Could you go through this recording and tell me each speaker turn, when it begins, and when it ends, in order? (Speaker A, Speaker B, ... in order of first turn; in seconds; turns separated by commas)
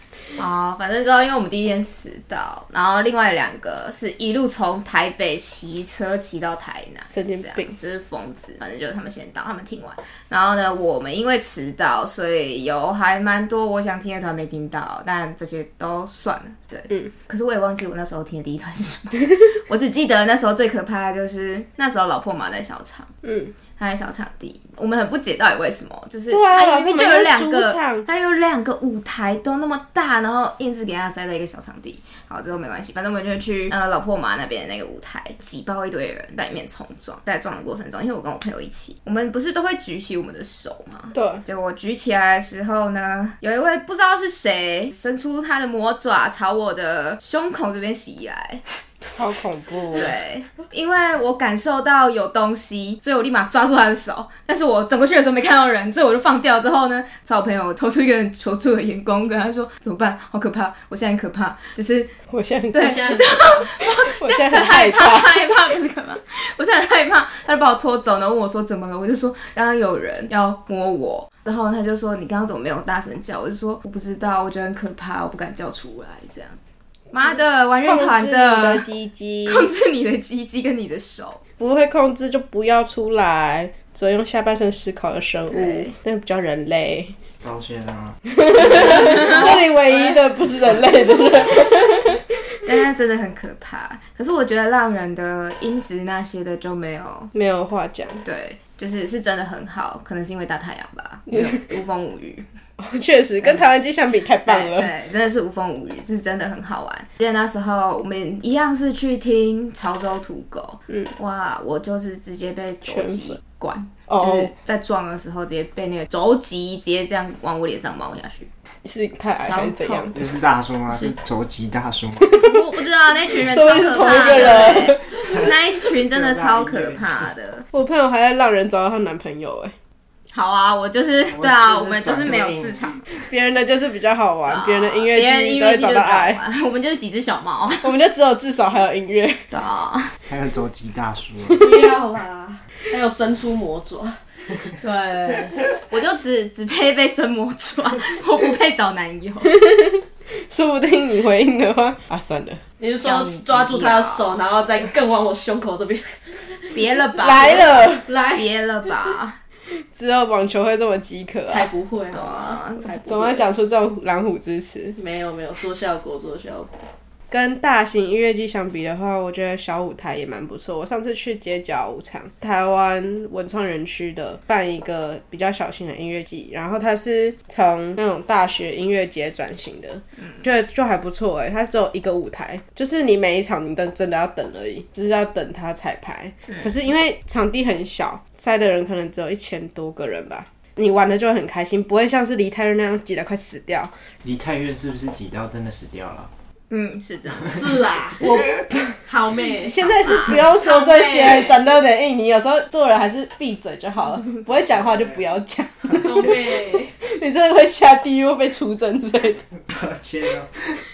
Speaker A: 0.3-23.1, Speaker B: 7.0-7.7, Speaker B: 23.2-23.5, Speaker A: 23.8-48.6, Speaker B: 26.3-28.1, Speaker B: 41.1-41.4, Speaker B: 49.1-50.1, Speaker A: 49.9-62.1, Speaker B: 62.3-63.0, Speaker A: 62.7-76.6, Speaker C: 62.8-63.6, Speaker B: 63.8-65.5, Speaker A: 77.1-78.9, Speaker B: 77.1-79.7, Speaker A: 79.4-81.4, Speaker B: 81.6-87.1, Speaker A: 85.5-86.0, Speaker D: 87.4-88.2, Speaker B: 88.3-92.2, Speaker A: 88.6-90.2, Speaker A: 92.6-97.3, Speaker B: 97.3-98.2, Speaker A: 98.2-102.5, Speaker B: 102.8-104.9, Speaker A: 103.4-103.7, Speaker A: 104.5-118.5, Speaker B: 112.9-113.4, Speaker B: 114.1-114.5, Speaker B: 118.8-120.1, Speaker A: 119.4-120.3, Speaker D: 120.1-122.4, Speaker A: 120.9-121.2, Speaker A: 122.4-127.6, Speaker B: 123.4-125.0, Speaker C: 124.2-124.5, Speaker D: 125.2-125.5, Speaker D: 126.1-127.3, Speaker B: 127.7-129.7, Speaker A: 130.3-133.0, Speaker D: 131.2-133.2, Speaker B: 133.3-136.4, Speaker A: 134.5-137.9, Speaker B: 137.8-139.4, Speaker A: 139.5-140.1, Speaker D: 140.3-141.6, Speaker C: 141.6-144.2, Speaker A: 144.8-149.5, Speaker B: 149.4-152.6, Speaker C: 152.8-156.8, Speaker A: 153.0-154.4, Speaker A: 156.7-159.4, Speaker B: 157.2-158.1, Speaker C: 157.3-158.6, Speaker B: 159.8-161.7, Speaker C: 161.4-163.5, Speaker A: 162.1-162.9, Speaker B: 163.0-164.9, Speaker C: 164.9-166.8, Speaker B: 167.3-193.9, Speaker A: 186.5-186.7, Speaker D: 194.2-196.3, Speaker A: 196.7-197.7, Speaker C: 197.5-198.3, Speaker B: 198.2-199.0, Speaker A: 198.2-198.6, Speaker C: 199.0-201.6, Speaker B: 199.6-206.3, Speaker A: 199.8-200.5, Speaker D: 204.5-205.3, Speaker D: 205.8-206.3, Speaker C: 205.9-206.9, Speaker B: 207.0-209.4, Speaker D: 209.7-210.8